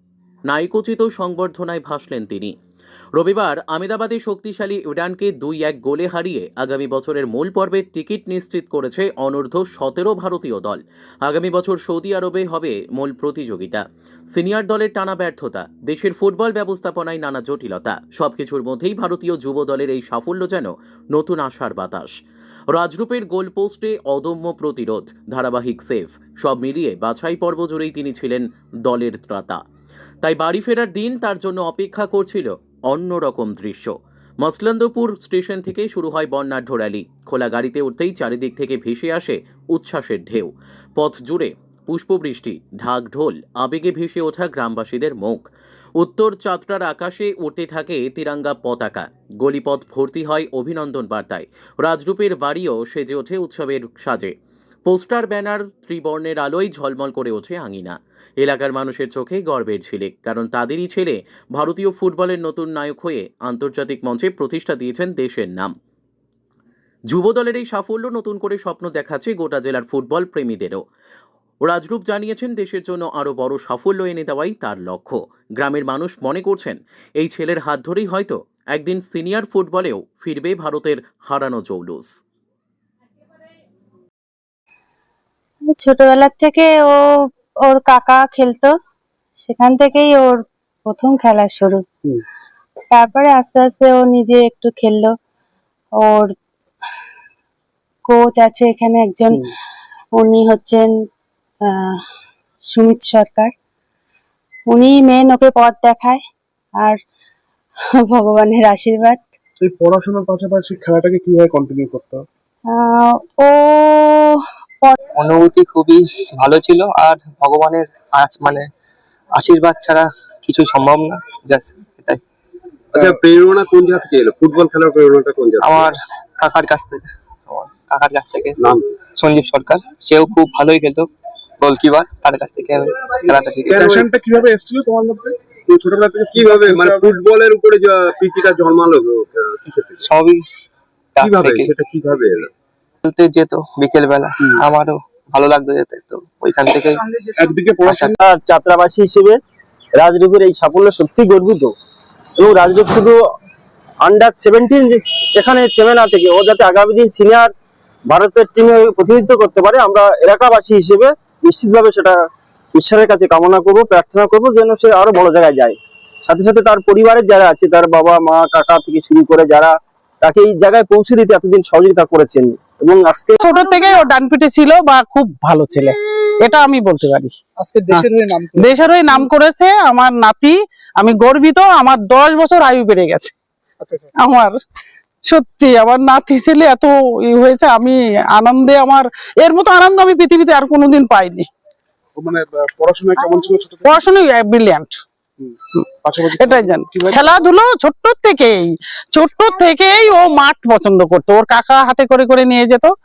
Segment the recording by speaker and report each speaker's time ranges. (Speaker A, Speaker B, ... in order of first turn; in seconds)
Speaker A: 0.5-2.5, 3.2-22.1, 22.7-29.6, 30.2-45.4, 46.0-54.3, 54.9-65.7, 67.1-70.8, 71.6-82.1
Speaker B: 85.7-87.0, 87.7-88.7, 89.5-91.8, 92.9-95.1, 96.0-96.3, 98.1-99.4, 100.2-100.9, 101.7-102.0, 102.7-103.5, 104.7-106.2, 108.0-109.2, 112.7-115.0
Speaker C: 109.6-112.2, 133.7-137.1, 147.4-148.2, 192.1-194.0, 195.4-197.4
Speaker D: 115.2-118.7, 119.3-122.2, 125.6-131.1, 131.6-133.9, 140.0-140.4, 141.2-141.7, 143.0-147.0, 147.8-148.2
Speaker E: 122.9-125.9, 133.8-134.0, 136.3-140.1, 141.2-142.5
Speaker F: 148.2-149.4, 150.0-151.7, 152.4-153.2, 154.0-157.5, 158.1-162.2, 162.7-173.4
Speaker G: 173.4-177.4, 177.9-183.3, 184.1-184.6, 185.2-191.5, 193.8-195.0, 196.4-202.9